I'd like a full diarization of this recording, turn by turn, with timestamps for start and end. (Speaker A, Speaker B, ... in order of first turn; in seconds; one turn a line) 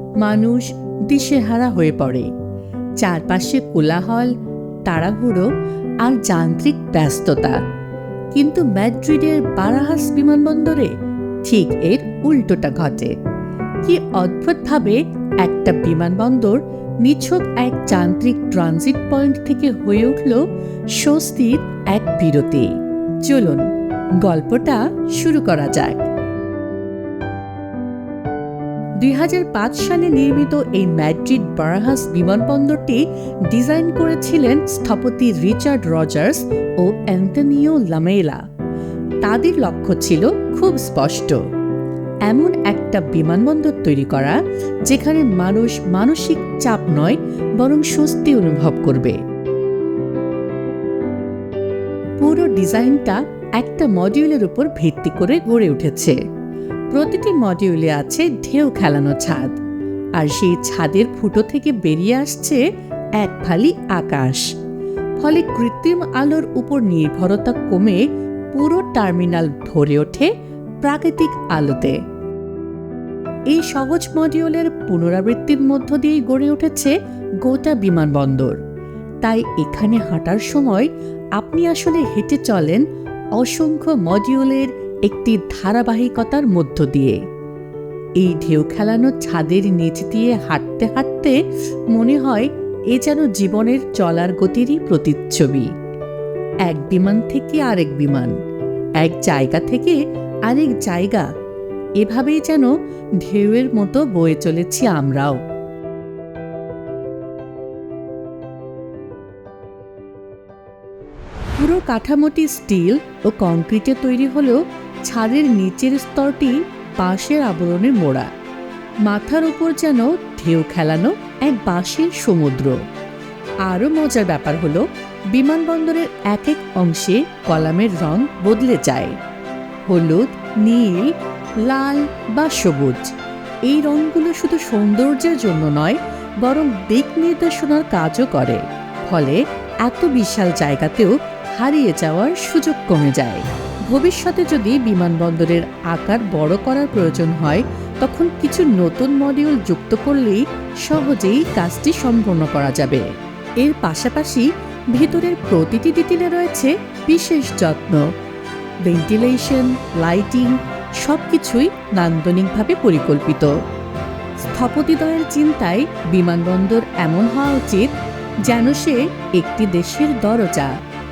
Speaker A: 0.2-2.3
Speaker A: 3.0-4.3
Speaker A: 4.9-5.5
Speaker A: 6.0-7.6
Speaker A: 8.3-10.9
Speaker A: 11.4-13.1
Speaker A: 13.8-22.7
Speaker A: 23.2-23.7
Speaker A: 24.2-26.1
Speaker A: 29.0-38.4
Speaker A: 39.2-41.4
Speaker A: 42.3-49.2
Speaker A: 52.2-56.2
Speaker A: 56.9-59.5
Speaker A: 60.1-62.6
Speaker A: 63.2-64.5
Speaker A: 65.2-70.3
Speaker A: 70.8-72.0
Speaker A: 73.5-78.6
Speaker A: 79.2-82.8
Speaker A: 83.4-87.2
Speaker A: 88.2-91.4
Speaker A: 91.9-95.7
Speaker A: 96.7-98.4
Speaker A: 99.0-101.3
Speaker A: 102.0-105.4
Speaker A: 111.6-118.3
Speaker A: 119.0-122.8
Speaker A: 123.7-129.2
Speaker A: 129.9-153.1
Speaker A: 153.6-158.1
Speaker A: 158.8-163.5
Speaker A: 164.4-170.8